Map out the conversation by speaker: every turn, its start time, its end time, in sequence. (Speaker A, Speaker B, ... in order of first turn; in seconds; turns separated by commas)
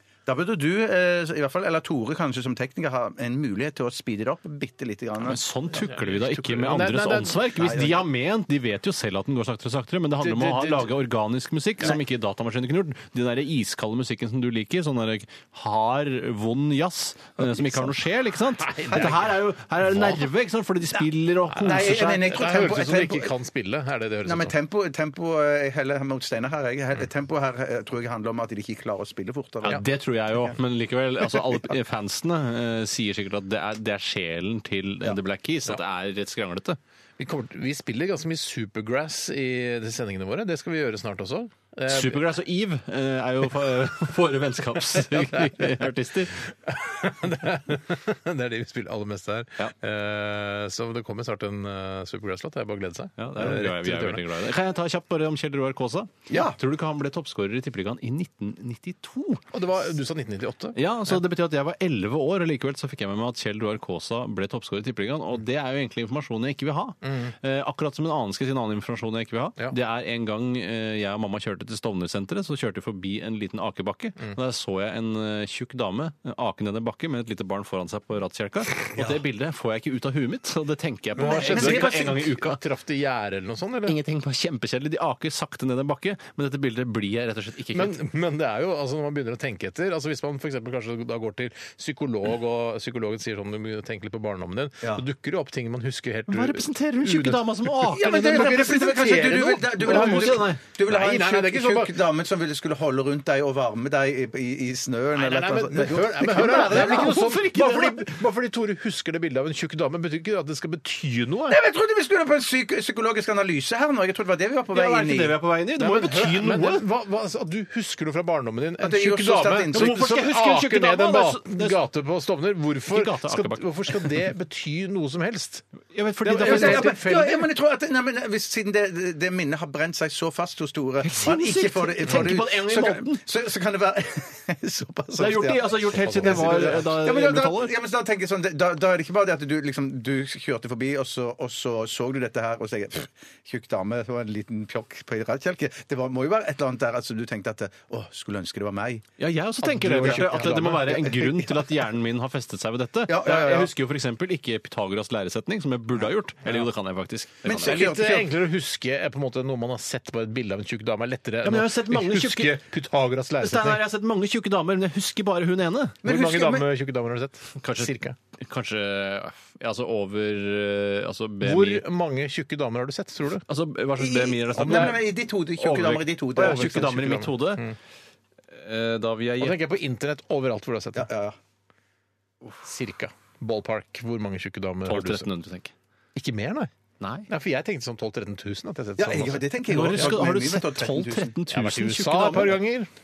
Speaker A: 0.3-5.4, Speaker B: 5.2-22.2, Speaker C: 5.8-7.5, Speaker A: 7.5-8.0, Speaker C: 10.2-10.9, Speaker A: 17.4-17.9, Speaker C: 18.6-19.3, Speaker C: 21.5-24.5, Speaker A: 21.6-23.3, Speaker A: 24.2-29.8, Speaker B: 29.6-36.8, Speaker C: 37.2-42.2, Speaker B: 41.9-46.4, Speaker C: 46.6-54.2, Speaker B: 53.2-59.4, Speaker A: 56.3-56.6, Speaker C: 59.5-60.8, Speaker B: 60.8-82.6, Speaker C: 67.0-67.3, Speaker C: 81.2-84.0, Speaker A: 81.2-82.3, Speaker B: 83.8-88.0, Speaker C: 87.7-102.0, Speaker B: 96.3-98.7, Speaker A: 97.9-107.2, Speaker B: 99.8-100.6, Speaker C: 105.2-111.6, Speaker B: 106.3-108.2, Speaker A: 111.5-115.4, Speaker B: 114.7-116.8, Speaker C: 115.8-125.7, Speaker A: 118.8-120.0, Speaker B: 119.7-121.8, Speaker B: 122.9-124.2, Speaker B: 125.9-126.9, Speaker C: 126.2-127.5, Speaker A: 126.4-149.1, Speaker B: 131.0-133.2, Speaker B: 135.2-137.7, Speaker C: 135.9-136.8, Speaker B: 149.2-157.9, Speaker C: 149.6-150.9, Speaker A: 149.9-151.7, Speaker A: 153.1-153.7, Speaker A: 157.4-158.3, Speaker C: 157.6-163.8, Speaker B: 161.4-162.6, Speaker B: 163.4-166.0, Speaker A: 166.0-166.7, Speaker C: 166.0-168.2, Speaker B: 167.6-171.8, Speaker C: 171.4-173.4, Speaker B: 173.5-177.7, Speaker A: 174.0-177.2, Speaker C: 174.6-175.0, Speaker C: 176.4-177.8, Speaker B: 178.5-179.7, Speaker C: 179.4-181.1, Speaker A: 180.9-181.4, Speaker C: 182.6-185.3, Speaker B: 184.9-185.7, Speaker C: 186.2-186.7, Speaker B: 187.0-187.3, Speaker C: 187.3-190.2, Speaker A: 189.0-191.3, Speaker B: 189.7-192.6, Speaker C: 191.5-192.9